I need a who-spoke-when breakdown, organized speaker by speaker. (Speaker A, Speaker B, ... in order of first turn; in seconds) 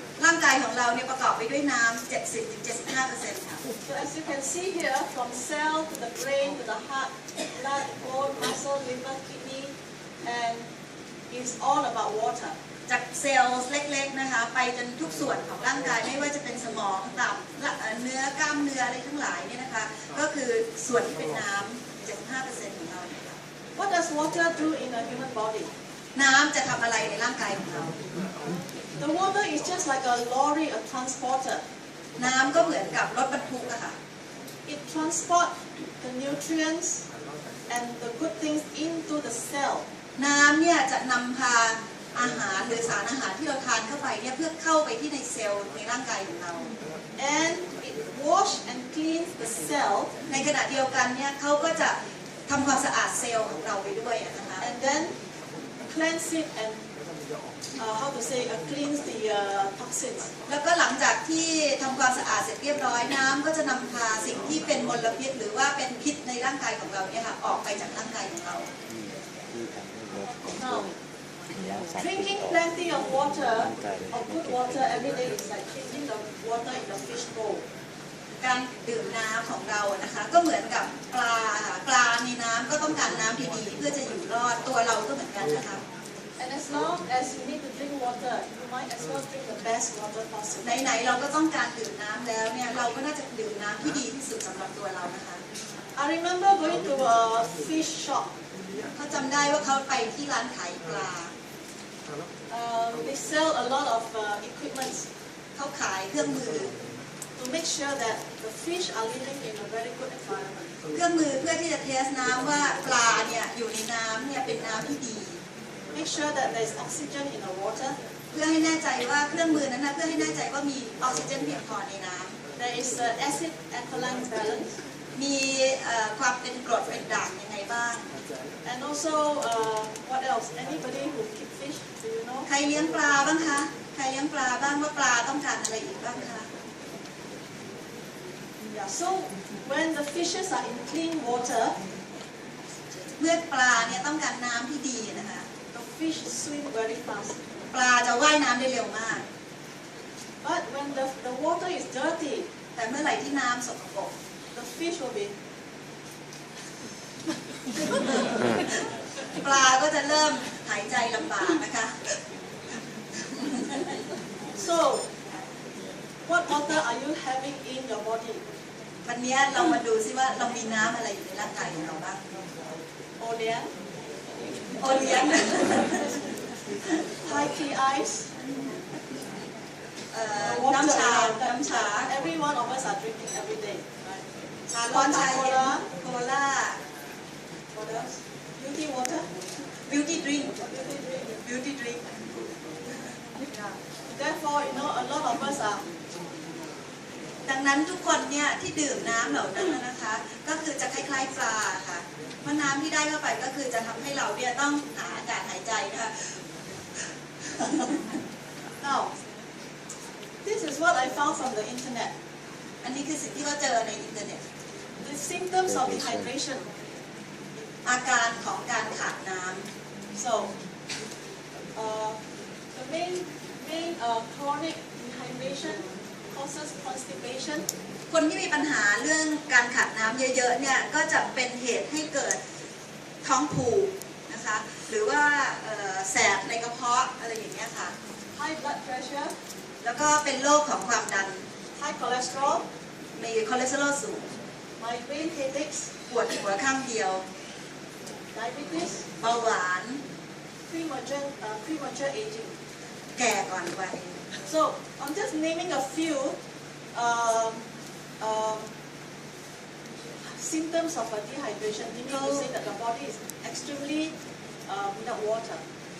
Speaker A: 0.2-3.6, 12.9-23.4, 26.1-28.0, 32.1-33.9, 40.2-46.7, 50.3-52.0, 52.5-54.7, 60.5-68.7, 78.4-85.8, 90.6-95.4, 99.0-101.3, 105.5-106.7, 110.9-115.4, 118.3-122.4, 125.1-128.1, 132.5-136.5, 143.2-145.5, 147.7-149.2, 152.8-154.1, 159.3-162.1, 163.3-164.0, 169.1-172.2, 174.8-176.2, 178.4-179.0, 180.1-182.1, 184.7-186.8, 189.9-190.6, 191.4-192.5, 197.4-206.4, 207.4-208.2, 212.8-214.4, 217.8-219.6, 228.1-232.4, 233.2-237.9, 239.8-241.4, 243.2-244.3, 246.1-247.2, 249.2-250.0, 253.2-254.2, 262.1-262.5
Speaker B: 3.8-9.7, 10.2-10.6, 11.3-12.6, 23.8-25.7, 29.0-31.6, 34.6-37.0, 37.7-39.8, 47.2-50.1, 54.6-55.1, 55.9-56.8, 57.8-60.3, 70.3-71.0, 71.9-77.6, 86.4-90.8, 96.0-98.3, 102.5-105.0, 107.4-110.7, 115.9-118.0, 122.5-124.7, 128.6-132.5, 138.7-141.8, 145.7-147.4, 150.4-152.4, 154.5-155.3, 164.6-165.1, 166.2-168.4, 173.2-173.7, 177.2-178.3, 180.4-184.2, 184.8-185.8, 187.7-189.3, 190.6-191.4, 193.4-195.8, 208.8-209.1, 210.4-212.1, 215.0-216.6, 220.1-220.5, 221.7-222.2, 222.7-227.7, 238.3-239.3, 241.8-242.6, 244.8-245.9, 248.3-249.1, 250.7-252.6, 254.4-256.4, 256.9-257.6, 258.2-258.7, 260.2-264.1, 264.7-265.6